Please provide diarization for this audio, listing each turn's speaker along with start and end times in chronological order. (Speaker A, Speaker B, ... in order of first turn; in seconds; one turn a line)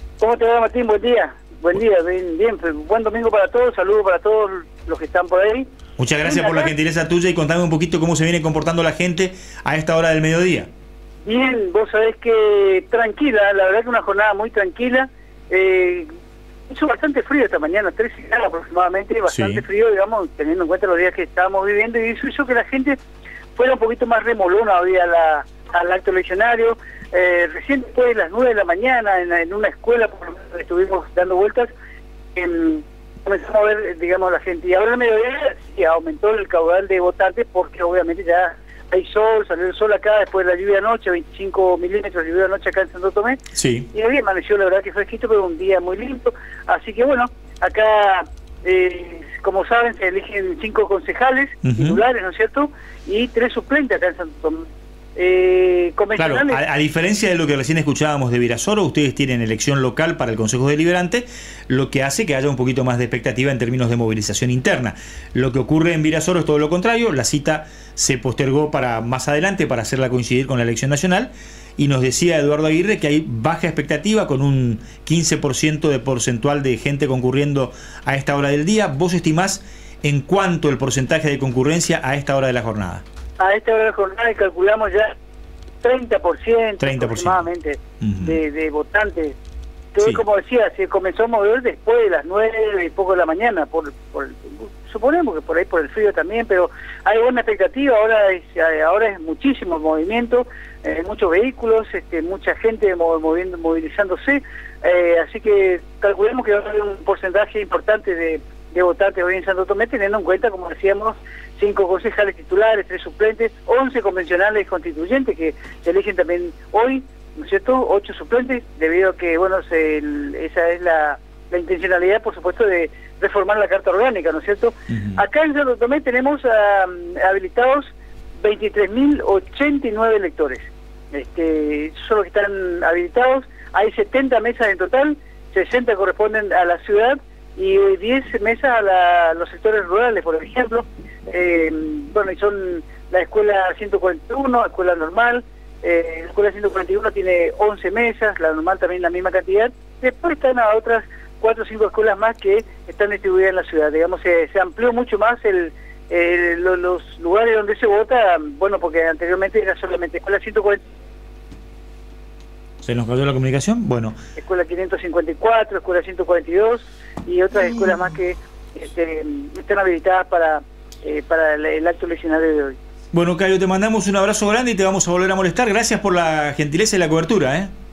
Speaker A: 0.2-5.7
Speaker B: 6.0-10.7
Speaker A: 6.2-6.7
Speaker A: 11.3-16.1
Speaker A: 16.7-23.0
Speaker B: 19.3-19.6
Speaker A: 23.6-31.7
Speaker A: 32.4-43.4
Speaker B: 43.5-43.9
Speaker A: 43.9-56.6
Speaker B: 51.6-52.0
Speaker B: 56.2-83.0
Speaker A: 83.4-85.1
Speaker A: 85.8-89.4
Speaker B: 86.8-87.5
Speaker B: 88.0-88.4
Speaker A: 89.9-160.8
Speaker B: 124.9-125.2
Speaker B: 162.8-164.2
Speaker A: 164.4-172.8
Speaker B: 173.1-177.7